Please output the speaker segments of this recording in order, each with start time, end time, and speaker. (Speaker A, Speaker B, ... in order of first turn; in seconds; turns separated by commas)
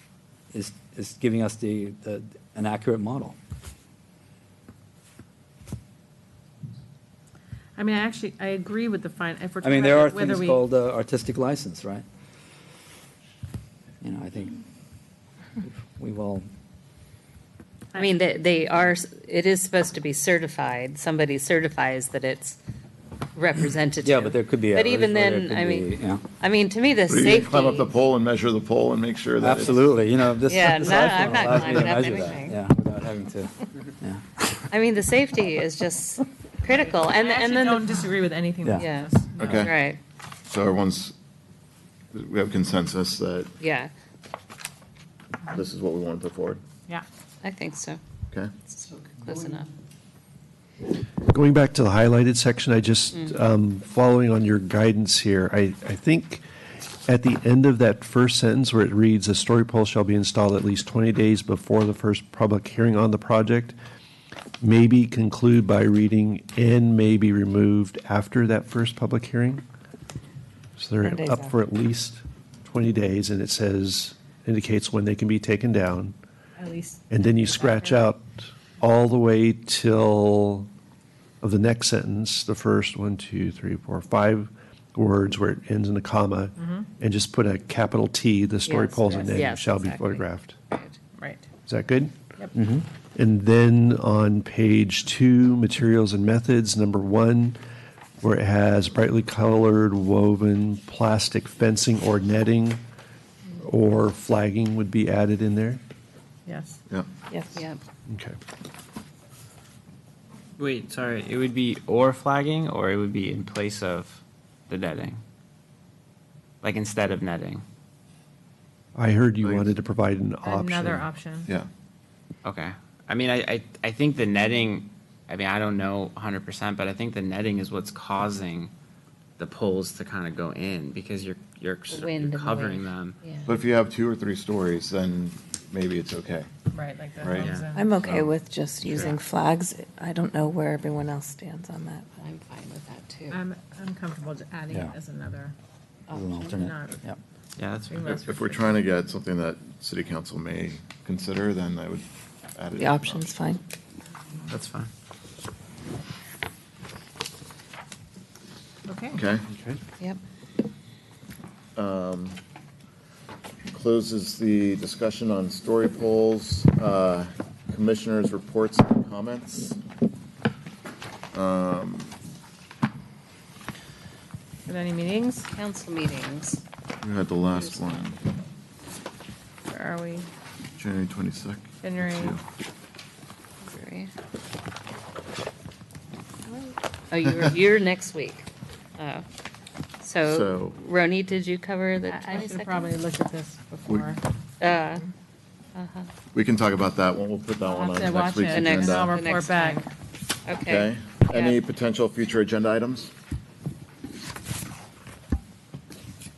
Speaker A: 0.5-3.4, Speaker B: 7.8-10.6, Speaker A: 9.6-12.0, Speaker A: 14.0-14.6, Speaker A: 15.6-16.5, Speaker C: 17.9-22.6, Speaker C: 23.3-27.9, Speaker A: 24.0-26.2, Speaker D: 27.1-29.9, Speaker A: 29.4-34.6, Speaker C: 30.4-32.6, Speaker C: 34.7-38.1, Speaker B: 36.8-39.6, Speaker C: 38.8-40.0, Speaker D: 39.4-39.8, Speaker D: 40.5-41.1, Speaker D: 42.1-43.5, Speaker C: 43.6-43.9, Speaker D: 45.5-46.6, Speaker C: 47.4-48.0, Speaker C: 48.7-49.7, Speaker E: 51.3-56.5, Speaker C: 53.1-53.4, Speaker E: 57.0-63.8, Speaker E: 64.6-69.6, Speaker E: 70.8-76.2, Speaker F: 71.0-71.5, Speaker B: 76.6-78.0, Speaker E: 77.1-80.7, Speaker E: 81.4-90.5, Speaker B: 86.6-86.8, Speaker C: 88.7-91.0, Speaker B: 89.1-89.4, Speaker B: 91.2-91.5, Speaker E: 91.7-92.1, Speaker A: 92.5-92.8, Speaker E: 93.1-97.6, Speaker E: 98.2-102.8, Speaker E: 103.6-105.8, Speaker B: 106.5-106.8, Speaker F: 107.3-107.6, Speaker C: 107.5-107.8, Speaker E: 108.1-108.3, Speaker G: 110.6-115.2, Speaker G: 116.6-117.6, Speaker E: 118.9-121.1, Speaker D: 119.4-119.7, Speaker B: 120.4-121.5, Speaker G: 122.4-128.7, Speaker G: 129.4-133.2, Speaker C: 131.9-133.6, Speaker D: 133.5-136.5, Speaker B: 136.7-138.2, Speaker D: 137.2-137.6, Speaker G: 137.4-138.3, Speaker F: 137.7-142.2, Speaker G: 138.8-139.1, Speaker C: 142.2-143.4, Speaker B: 143.3-145.6, Speaker A: 146.1-147.2, Speaker B: 146.1-147.0, Speaker G: 147.6-148.1, Speaker B: 147.9-148.8, Speaker D: 148.0-153.3, Speaker F: 152.8-153.6, Speaker G: 154.5-154.9, Speaker B: 158.9-159.2, Speaker D: 159.1-159.4, Speaker E: 159.5-159.8, Speaker D: 161.8-162.4, Speaker D: 163.7-169.8, Speaker D: 171.3-172.2, Speaker B: 174.7-175.5, Speaker C: 175.5-176.6, Speaker D: 177.0-178.2, Speaker C: 177.5-177.8, Speaker B: 179.7-180.3, Speaker D: 180.8-182.4, Speaker B: 181.8-182.4, Speaker C: 183.7-184.1, Speaker C: 186.5-189.2, Speaker C: 190.0-193.0, Speaker D: 190.2-190.8, Speaker B: 192.1-194.2, Speaker D: 193.9-194.1, Speaker C: 194.6-195.1, Speaker C: 195.8-196.1, Speaker D: 196.3-199.2, Speaker B: 197.6-199.9, Speaker C: 198.5-199.9, Speaker C: 200.5-201.6, Speaker D: 200.7-203.1